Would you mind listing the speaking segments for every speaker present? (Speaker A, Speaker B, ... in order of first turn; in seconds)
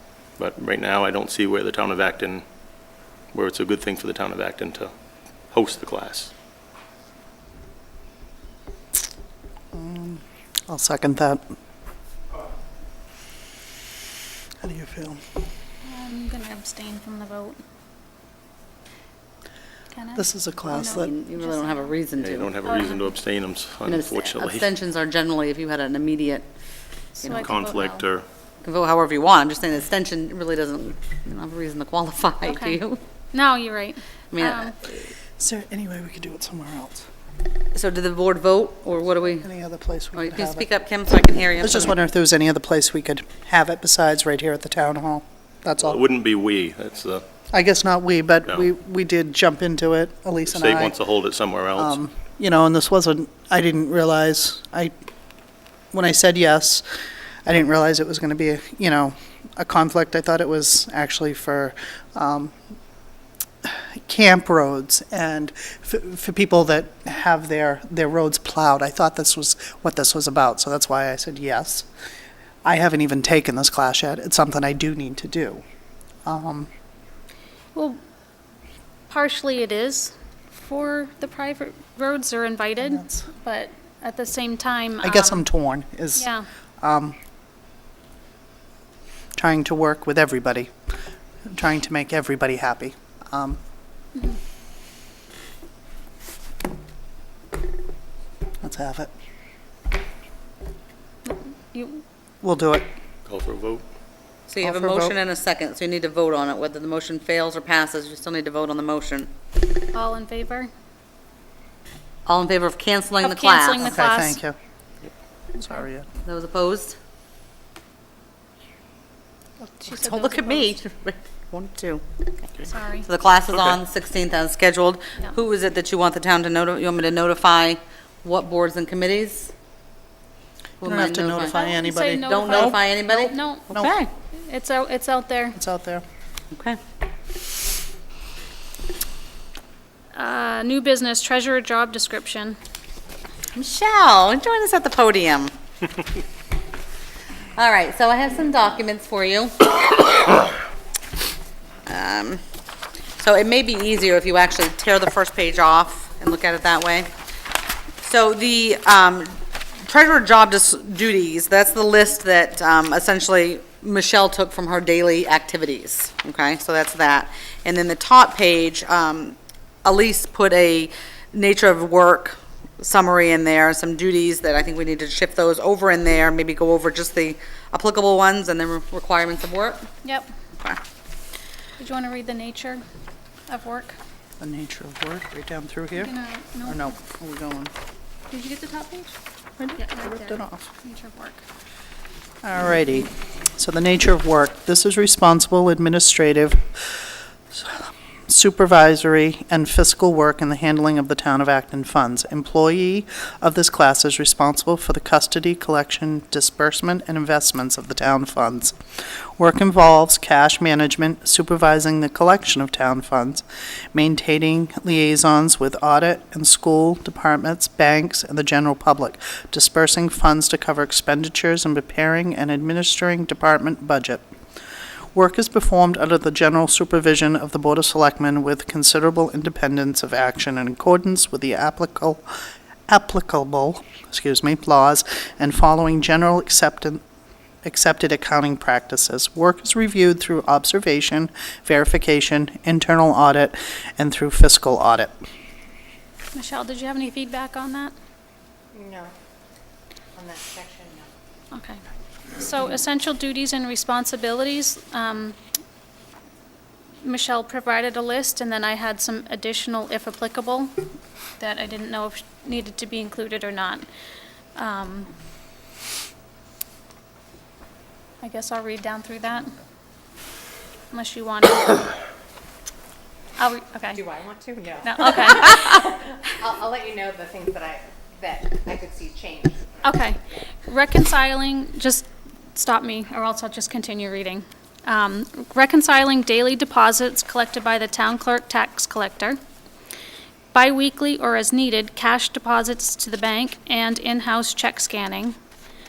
Speaker A: 0.4-2.5, 3.3-4.9, 5.5-6.3, 22.2-24.7, 27.4-28.3, 45.8-47.2, 50.5-52.0, 103.3-103.8, 123.5-123.8
Speaker B: 9.7-11.4, 14.6-15.2, 20.2-21.1, 35.4-37.1, 39.4-40.7, 41.6-46.0, 47.5-51.0, 51.8-54.9, 55.9-56.8, 57.5-62.5, 63.6-71.9, 72.7-75.6, 76.3-76.7, 82.9-83.2, 85.0-86.3, 86.8-87.2, 89.4-90.7, 91.5-93.6, 98.6-99.1, 102.4-102.9, 104.6-105.2, 113.8-114.5, 115.7-116.1, 130.8-132.8, 133.7-134.0, 135.6-136.0, 184.4-186.1, 186.6-187.7, 189.6-190.7, 192.4-208.8, 209.4-224.2, 225.2-232.2, 232.9-237.0, 237.6-245.1
Speaker C: 15.8-17.6, 19.9-21.9, 22.6-23.1, 27.2-28.1, 32.4-32.8, 33.3-34.8, 77.7-78.0, 79.1-85.4, 86.2-86.5, 101.2-102.0, 109.9-110.7, 113.2-114.4, 115.6-115.8, 119.6-120.8, 122.7-123.1, 131.4-133.7, 134.3-135.6, 140.1-142.6, 180.0-180.3, 181.8-182.8, 183.5-184.0, 186.0-186.9, 188.3-189.1, 189.8-191.4, 246.3-247.9, 251.5-251.8, 252.3-255.4, 257.0-260.8, 261.4-263.9, 264.6-265.1, 268.2-269.6, 270.9-271.9, 273.4-274.0, 274.8-275.8, 279.8-289.4, 290.5-295.4
Speaker D: 21.0-22.6, 23.8-26.5, 27.2-27.7, 28.6-33.0, 34.3-34.8, 37.7-39.5, 40.1-42.0, 104.5-109.3, 112.3-114.0, 116.2-117.0, 119.9-122.0, 123.1-129.5, 130.8-134.1, 136.5-136.8, 143.6-145.5, 147.6-150.5, 151.9-152.4, 153.2-157.1, 158.0-179.9
Speaker E: 248.7-249.1, 250.2-251.1, 273.9-279.8